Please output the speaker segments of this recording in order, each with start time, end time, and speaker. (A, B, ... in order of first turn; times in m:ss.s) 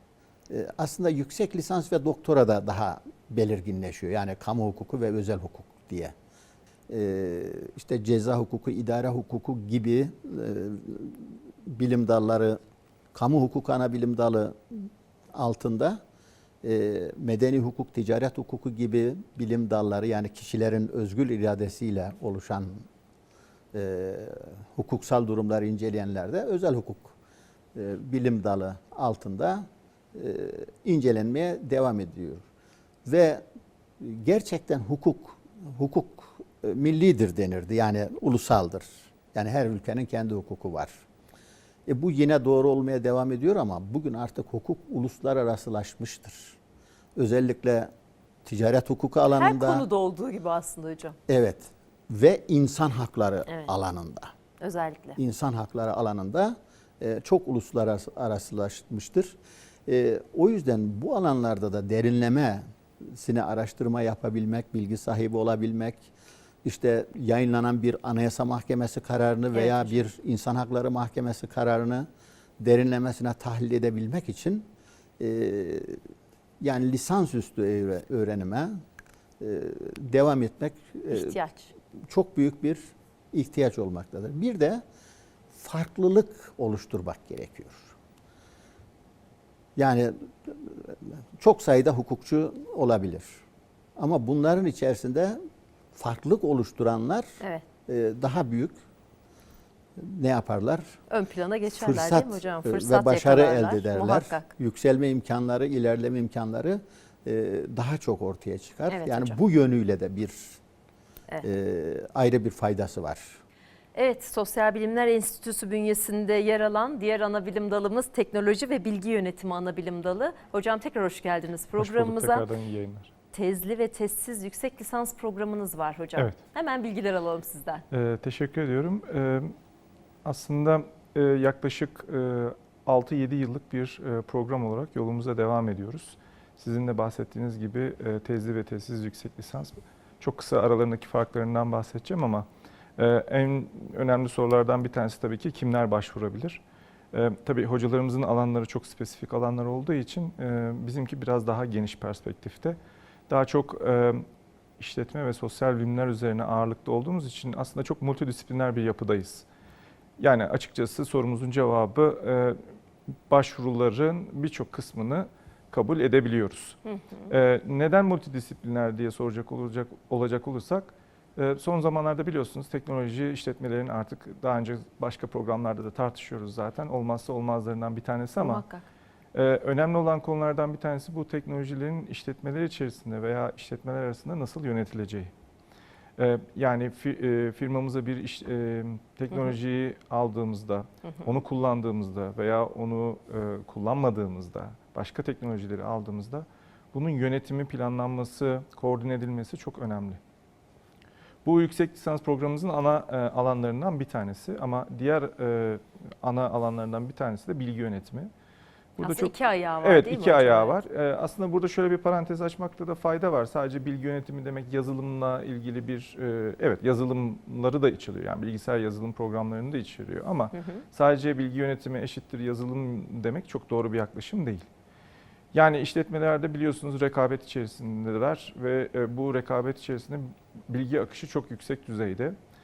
0:00.5-0:06.1 A
0:06.9-0:12.6 A
0:13.1-0:16.0 A
0:16.6-0:22.9 A
0:23.7-0:27.1 A
0:27.7-0:32.5 A
0:33.1-0:33.4 A
0:34.0-0:41.0 A
0:41.9-0:46.6 A
0:47.2-0:47.9 A
0:48.4-0:49.9 A
0:49.3-0:51.2 B
0:51.3-0:54.3 A
0:53.5-0:53.7 B
0:54.6-0:55.2 B
0:55.2-1:06.1 A
1:06.6-1:12.1 A
1:09.5-1:10.0 B
1:12.6-1:16.0 A
1:16.6-1:18.8 A
1:19.4-1:21.4 A
1:21.1-1:21.7 B
1:22.0-1:24.8 A
1:25.5-1:27.9 A
1:29.8-1:33.4 A
1:34.0-1:35.4 A
1:36.0-1:37.3 A
1:37.9-1:38.8 A
1:40.0-1:41.0 A
1:41.1-1:44.5 B
1:41.7-1:50.6 A
1:48.9-1:49.4 B
1:51.4-1:53.4 A
1:54.0-2:02.5 B
2:01.8-2:03.1 C
2:03.3-2:07.8 B
2:07.9-2:09.6 C
2:10.2-2:26.6 C
2:27.1-2:32.8 C
2:33.3-2:34.2 C
2:34.8-2:39.5 C
2:40.2-2:42.6 C
2:43.3-2:58.6 C
2:46.9-2:47.3 B
2:58.4-2:58.9 B
2:59.3-3:05.3 C
3:06.2-3:20.2 C
3:21.4-3:28.3 C
3:29.0-3:44.7 C
3:29.0-3:30.8 B
3:40.5-3:40.8 B
3:45.5-3:52.4 C